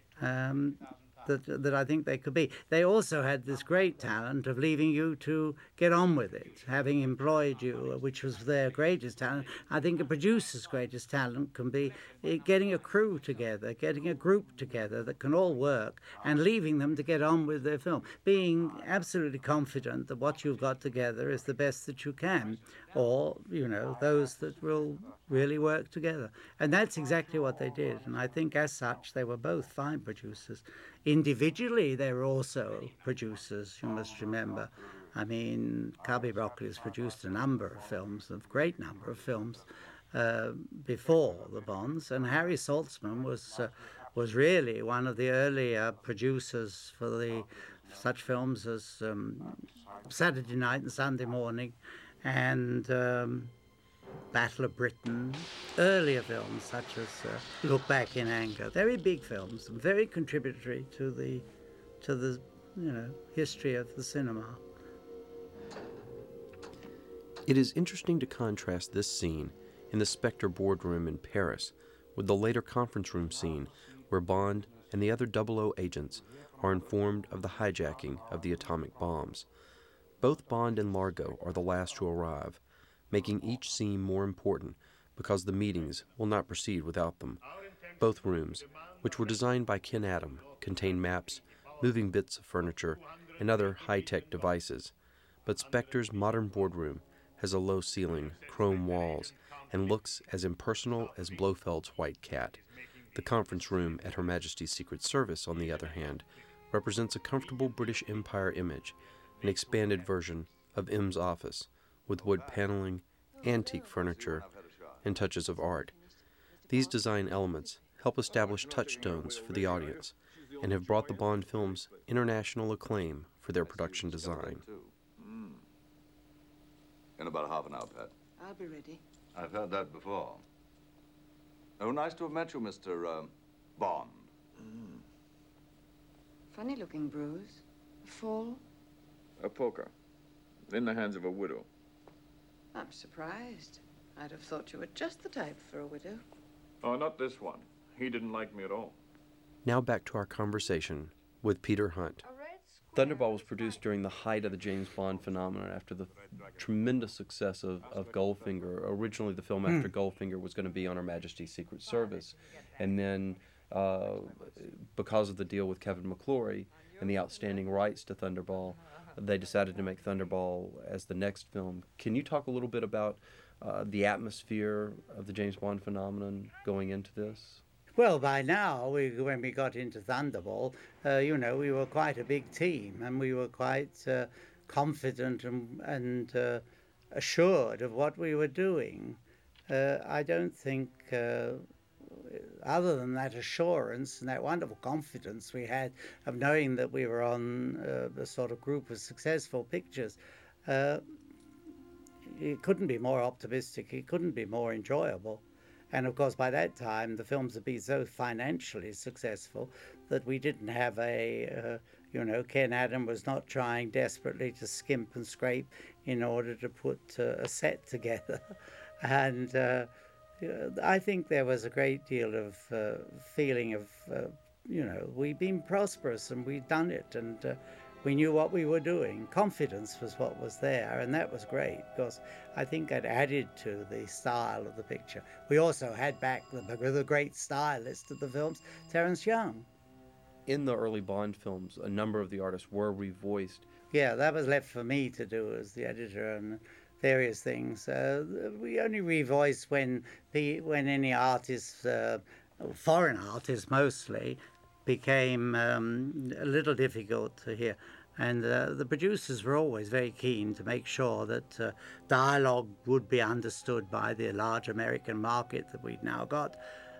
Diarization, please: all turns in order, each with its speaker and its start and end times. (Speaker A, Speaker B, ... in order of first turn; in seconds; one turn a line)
Speaker A: 0.2-53.5
Speaker A: 54.3-61.5
Speaker A: 62.0-64.6
Speaker B: 67.5-79.5
Speaker B: 80.2-87.4
Speaker B: 88.0-94.9
Speaker C: 93.6-94.4
Speaker B: 95.5-114.5
Speaker C: 98.3-99.9
Speaker C: 102.8-103.1
Speaker C: 105.5-106.1
Speaker C: 109.4-109.9
Speaker D: 113.4-113.8
Speaker E: 114.0-115.1
Speaker B: 115.0-115.9
Speaker D: 115.9-117.0
Speaker B: 116.7-124.6
Speaker C: 118.2-122.0
Speaker E: 123.6-125.6
Speaker E: 127.2-128.1
Speaker D: 128.4-129.0
Speaker E: 129.3-130.4
Speaker E: 131.8-135.0
Speaker D: 136.5-138.6
Speaker C: 139.4-139.9
Speaker C: 140.7-141.7
Speaker D: 142.7-146.2
Speaker C: 146.8-148.9
Speaker B: 149.6-152.2
Speaker D: 152.2-153.8
Speaker B: 152.9-177.6
Speaker C: 156.3-156.6
Speaker C: 157.8-158.6
Speaker A: 178.0-201.0
Speaker A: 202.2-239.7
Speaker B: 240.4-243.7
Speaker A: 243.9-266.6